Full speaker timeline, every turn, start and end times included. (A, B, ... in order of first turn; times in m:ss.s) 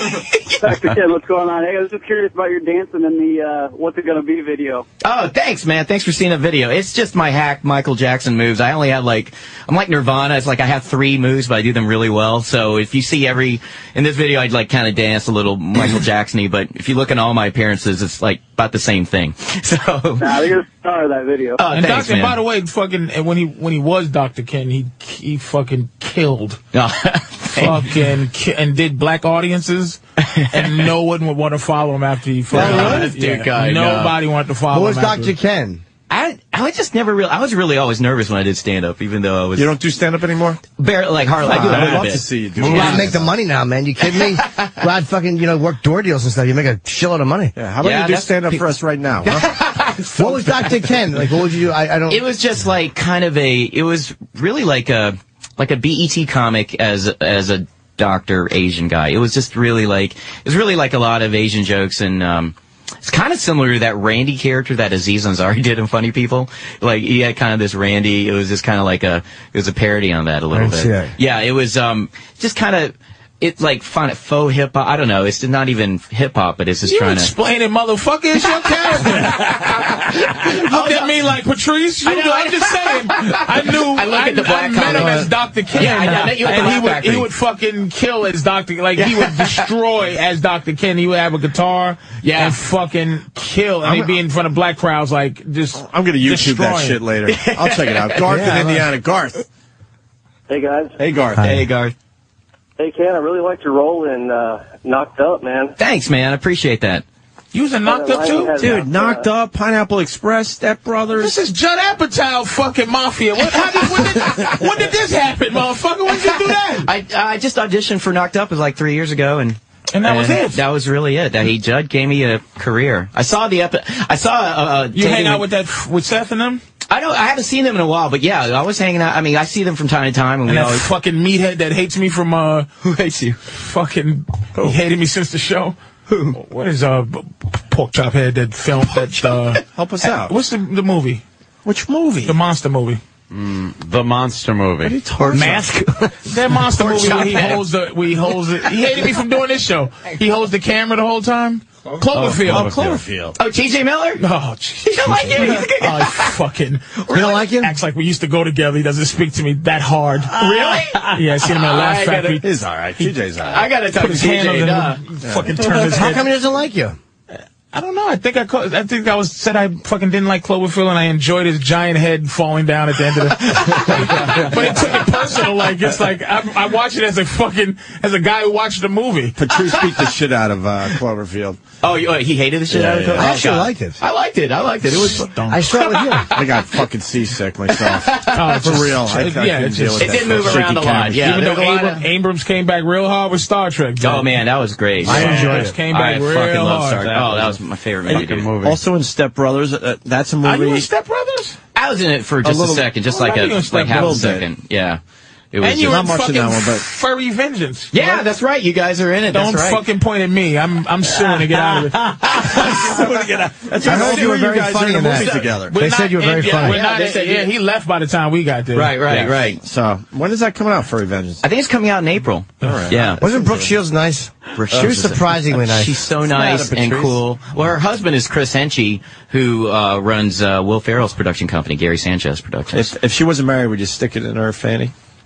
0:00.1-0:00.4 A
0:00.6-0:04.8 B
0:05.0-0:20.4 A
0:20.2-0:21.6 B
0:21.6-0:22.4 A
0:21.7-0:26.6 C
0:26.7-0:27.9 A
0:27.6-0:30.0 C
0:30.3-0:30.9 A
0:30.5-0:35.3 C
0:32.5-0:34.2 A
0:32.5-0:33.1 D
0:32.6-0:33.0 E
0:34.7-0:35.8 E
0:36.1-0:39.7 A
0:39.6-0:40.6 D
0:40.8-0:42.9 A
0:41.4-0:43.3 D
0:41.6-0:43.1 F
0:42.7-0:47.6 E
0:47.6-0:49.5 D
0:47.8-0:48.6 A
0:49.2-0:50.9 A
0:50.2-0:52.2 E
0:52.1-1:17.3 A
1:10.5-1:11.1 E
1:16.8-1:37.0 C
1:19.5-1:21.2 A
1:22.0-1:27.3 A
1:29.0-1:29.7 A
1:32.2-1:32.6 A
1:33.8-1:34.2 D
1:35.8-1:39.5 D
1:37.3-1:38.3 A
1:38.2-1:38.9 E
1:40.5-1:41.0 B
1:41.0-1:41.6 D
1:41.4-1:41.6 E
1:41.4-1:42.0 A
1:42.8-1:45.7 B
1:45.8-1:47.0 A
1:47.5-1:48.7 C
1:47.8-1:49.2 B
1:48.6-1:51.4 D
1:51.2-1:56.9 C
1:56.1-2:05.4 A
1:59.9-2:00.6 C
2:05.0-2:06.6 C
2:06.9-2:10.9 A
2:10.5-2:12.7 C
2:12.8-2:13.4 A
2:13.5-2:15.8 C
2:16.1-2:16.4 A
2:16.3-2:19.6 C
2:18.9-2:19.6 A
2:19.7-2:20.3 D
2:20.3-2:21.2 C
2:21.6-2:22.4 D
2:22.2-2:23.0 C
2:23.3-2:25.0 F
2:24.8-2:25.7 D
2:25.3-2:26.1 E
2:26.3-2:32.7 C
2:26.7-2:27.7 A
2:32.1-2:33.0 F
2:32.4-2:33.4 D
2:33.4-2:34.2 A
2:34.2-2:42.5 C
2:34.8-2:36.4 A
2:37.1-2:37.4 A
2:37.1-2:37.7 E
2:40.3-2:42.4 A
2:42.4-2:43.7 D
2:43.4-2:45.0 A
2:44.0-2:46.3 C
2:45.2-2:45.5 D
2:45.6-2:47.0 E
2:47.4-2:59.4 C
2:59.4-3:01.6 D
3:01.8-3:05.3 A
3:02.7-3:04.0 E
3:02.7-3:03.4 D
3:04.9-3:06.1 C
3:05.4-3:06.4 E
3:06.3-3:11.3 D
3:07.8-3:08.4 A
3:08.3-3:14.4 C
3:10.0-3:12.0 A
3:14.0-3:18.5 A
3:15.0-3:15.8 E
3:15.0-3:17.1 C
3:17.0-3:18.8 F
3:18.1-3:20.9 D
3:20.4-3:21.6 C
3:21.8-3:25.0 A
3:22.4-3:22.9 D
3:23.1-3:24.3 C
3:23.8-3:24.5 D
3:25.5-3:26.0 A
3:25.6-3:28.2 C
3:25.8-3:26.8 D
3:27.9-3:29.8 A
3:29.3-3:32.8 C
3:32.5-3:35.7 D
3:33.8-3:36.8 E
3:35.1-3:35.4 A
3:35.7-3:39.0 C
3:36.5-3:37.5 A
3:38.7-3:39.6 A
3:39.4-3:41.4 D
3:41.4-3:43.2 A
3:42.6-3:43.8 D
3:43.2-3:46.0 E
3:44.6-3:52.9 A
3:46.2-3:47.2 D
3:52.7-3:54.9 D